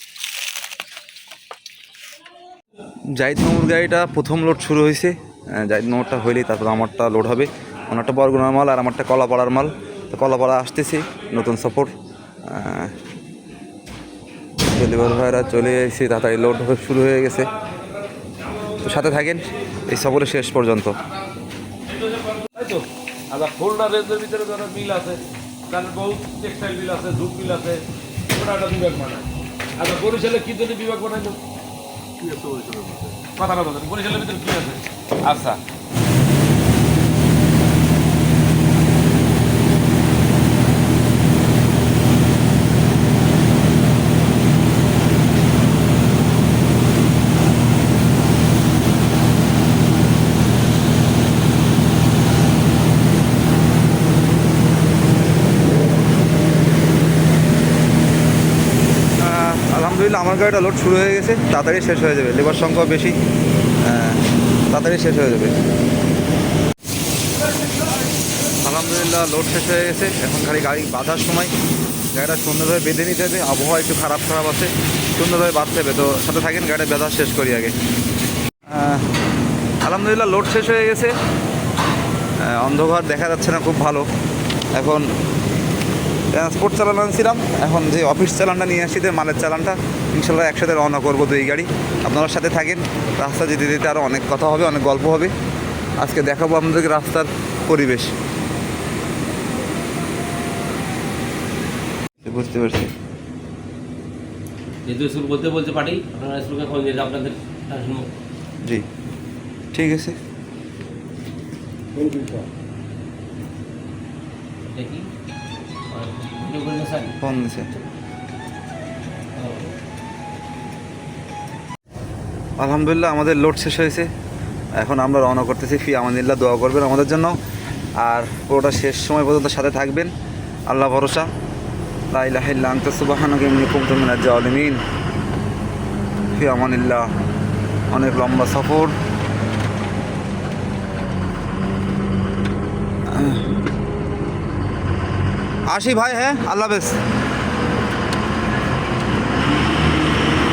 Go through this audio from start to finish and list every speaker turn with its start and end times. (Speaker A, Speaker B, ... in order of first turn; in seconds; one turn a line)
Speaker A: 3.1-12.9
Speaker A: 14.7-17.5
Speaker A: 18.8-20.9
Speaker B: 21.9-27.8
Speaker B: 28.3-29.2
Speaker B: 29.8-31.4
Speaker B: 32.2-35.6
Speaker A: 59.2-63.2
Speaker A: 63.8-65.5
Speaker A: 68.6-71.5
Speaker A: 72.1-77.8
Speaker A: 78.7-79.1
Speaker A: 79.8-81.1
Speaker A: 82.4-84.1
Speaker A: 84.7-85.1
Speaker A: 86.3-95.3
Speaker A: 96.0-98.1
Speaker A: 102.2-102.9
Speaker C: 104.9-108.0
Speaker A: 109.7-110.2
Speaker B: 112.0-112.4
Speaker C: 115.9-117.1
Speaker A: 117.2-117.7
Speaker A: 122.6-124.1
Speaker A: 124.8-127.3
Speaker A: 128.0-130.1
Speaker A: 130.7-131.3
Speaker A: 132.1-134.8
Speaker A: 136.3-137.1
Speaker A: 137.9-138.9
Speaker A: 143.1-143.5
Speaker A: 145.7-146.9